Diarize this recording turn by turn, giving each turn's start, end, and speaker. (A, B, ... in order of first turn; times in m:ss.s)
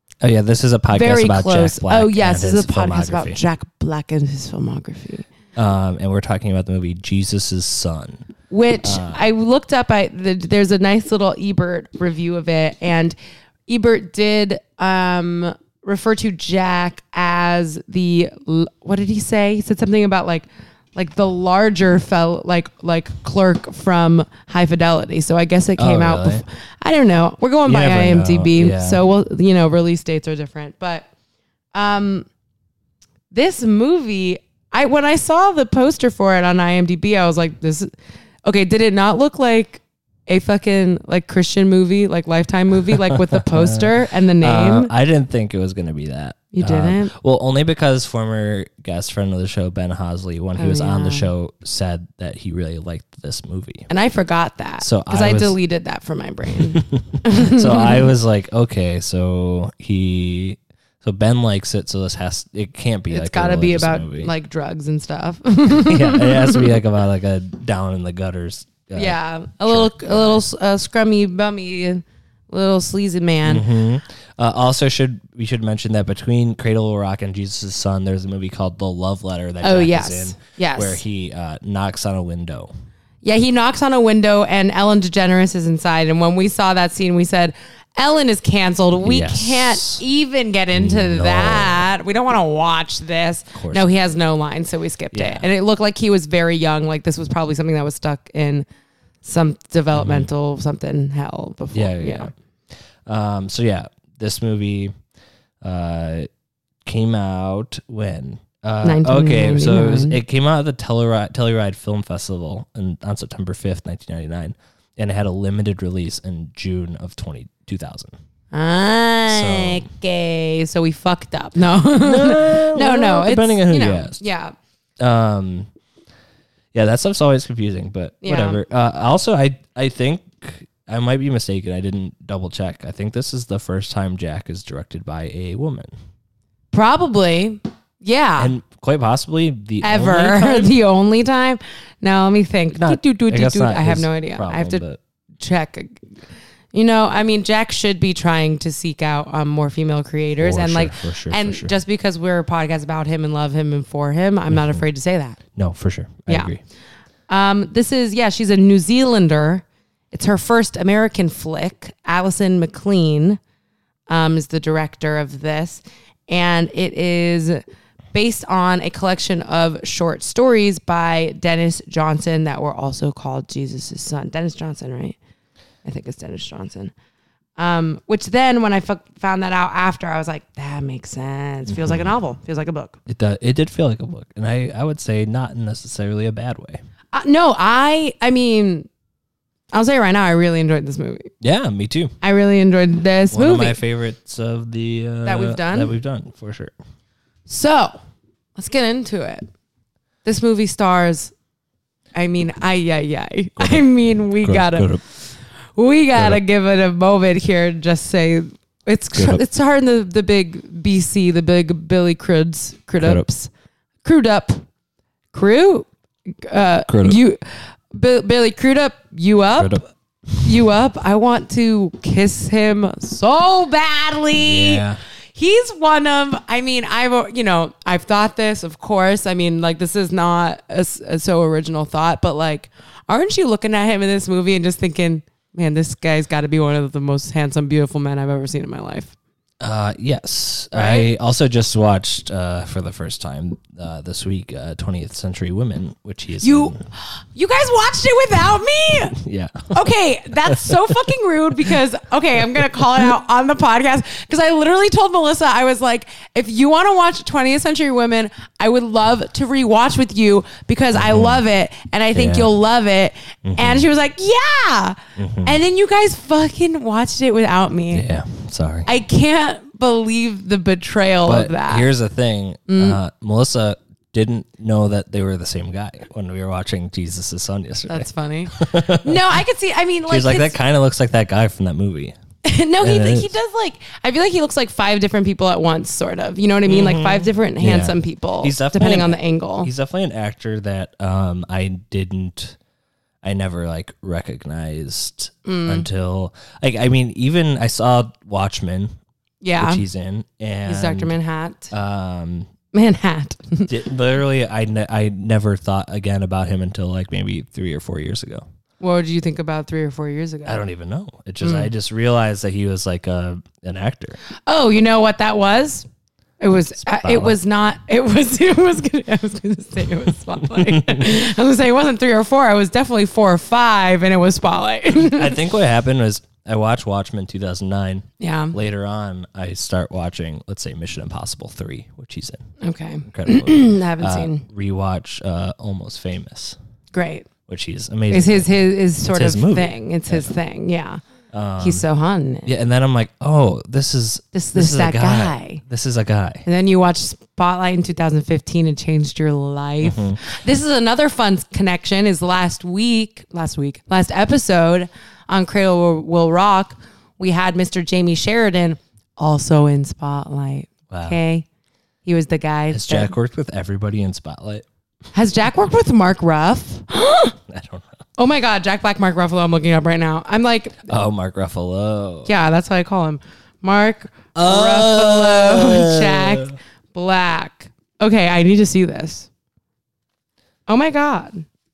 0:00.2-0:03.4 A
0:00.9-0:05.3 B
0:05.6-0:08.3 A
0:08.5-0:13.2 B
0:08.8-0:09.3 A
0:13.7-0:31.1 B
0:25.8-0:26.4 A
0:27.7-0:29.0 A
0:31.7-0:32.3 B
0:33.3-0:37.9 B
0:38.5-0:44.9 B
0:42.9-0:53.9 A
0:46.5-0:47.1 B
0:50.6-0:51.3 B
0:53.9-0:58.1 B
0:54.8-0:55.6 A
0:56.6-1:04.3 A
1:03.1-1:06.8 B
1:05.7-1:10.5 A
1:08.9-1:13.7 B
1:13.4-1:22.7 A
1:19.6-1:21.0 B
1:23.2-1:38.7 B
1:29.0-1:30.0 A
1:30.7-1:31.9 A
1:33.5-1:33.9 A
1:35.1-1:35.5 A
1:39.2-1:42.3 B
1:40.0-1:40.3 A
1:41.7-1:42.3 A
1:43.0-1:45.0 A
1:45.6-1:46.3 A
1:46.8-1:58.2 A
1:48.8-1:50.2 B
1:58.5-2:04.6 B
1:59.3-1:59.9 A
2:01.9-2:04.2 A
2:05.0-2:05.7 A
2:06.7-2:15.9 A
2:08.2-2:08.6 B
2:16.7-2:18.6 B
2:18.4-2:20.8 A
2:19.8-2:24.8 B
2:22.7-2:25.0 A
2:25.4-2:26.0 B
2:26.7-2:35.4 B
2:30.4-2:31.7 A
2:34.5-2:34.8 A
2:35.6-2:36.6 A
2:37.3-2:43.4 B
2:44.1-2:47.6 B
2:48.1-2:55.2 B
2:55.8-2:56.9 B
2:57.6-3:03.0 B
3:01.7-3:02.1 A
3:03.1-3:06.8 A
3:07.1-3:08.9 B
3:09.7-3:11.3 B
3:11.4-3:12.1 A
3:12.2-3:13.8 B
3:13.3-3:16.7 A
3:15.2-3:15.9 B
3:17.5-3:18.0 B
3:18.6-3:19.5 B
3:20.2-3:21.3 B
3:22.2-3:33.5 B
3:23.6-3:25.0 A
3:26.2-3:26.4 A
3:29.1-3:29.4 A
3:33.0-3:33.3 A
3:34.0-3:34.6 B
3:35.3-3:35.9 B
3:36.5-3:37.4 B
3:36.9-3:37.2 A
3:37.9-3:39.8 B
3:39.6-3:40.5 A
3:40.4-3:44.8 B
3:44.4-3:45.0 A
3:45.4-3:59.1 B
3:59.6-4:06.8 A
4:00.7-4:01.1 B
4:06.4-4:09.2 B
4:09.2-4:09.8 A
4:09.7-4:28.1 B
4:10.5-4:11.0 A
4:20.9-4:21.4 A
4:22.1-4:22.5 A
4:23.4-4:23.9 A
4:25.2-4:25.6 A
4:27.9-4:28.9 A
4:28.9-4:31.9 B
4:31.2-4:39.4 A
4:32.7-4:33.0 B
4:37.9-4:40.6 B
4:40.1-4:42.2 A
4:42.4-4:49.7 B
4:42.8-4:43.3 A
4:46.7-4:52.6 A
4:53.2-4:59.0 A
4:55.4-4:55.9 B
4:59.4-4:59.8 B
4:59.6-5:01.1 A
5:00.7-5:01.7 B
5:01.7-5:02.5 A
5:02.7-5:03.7 B
5:03.7-5:08.4 A
5:08.8-5:10.6 B
5:10.4-5:14.2 A
5:11.4-5:11.7 B
5:14.5-5:15.9 B
5:16.4-5:25.4 B
5:16.8-5:17.4 A
5:20.4-5:21.1 A
5:24.9-5:32.4 A
5:28.2-5:28.6 B
5:32.6-5:34.4 B
5:33.1-5:36.6 A
5:36.9-5:37.3 B
5:37.5-5:40.3 A
5:38.1-5:41.0 B
5:41.3-5:41.8 A
5:41.6-5:42.5 B
5:42.4-5:46.4 A
5:44.3-5:45.6 B
5:46.5-6:01.5 B
5:49.8-5:50.2 A
6:00.9-6:01.2 A
6:02.0-6:03.1 B
6:02.7-6:04.7 A
6:05.1-6:07.4 B
6:07.5-6:08.0 A
6:08.2-6:10.9 B
6:10.9-6:12.3 A
6:12.3-6:19.3 B
6:14.4-6:16.6 A
6:20.7-6:21.4 B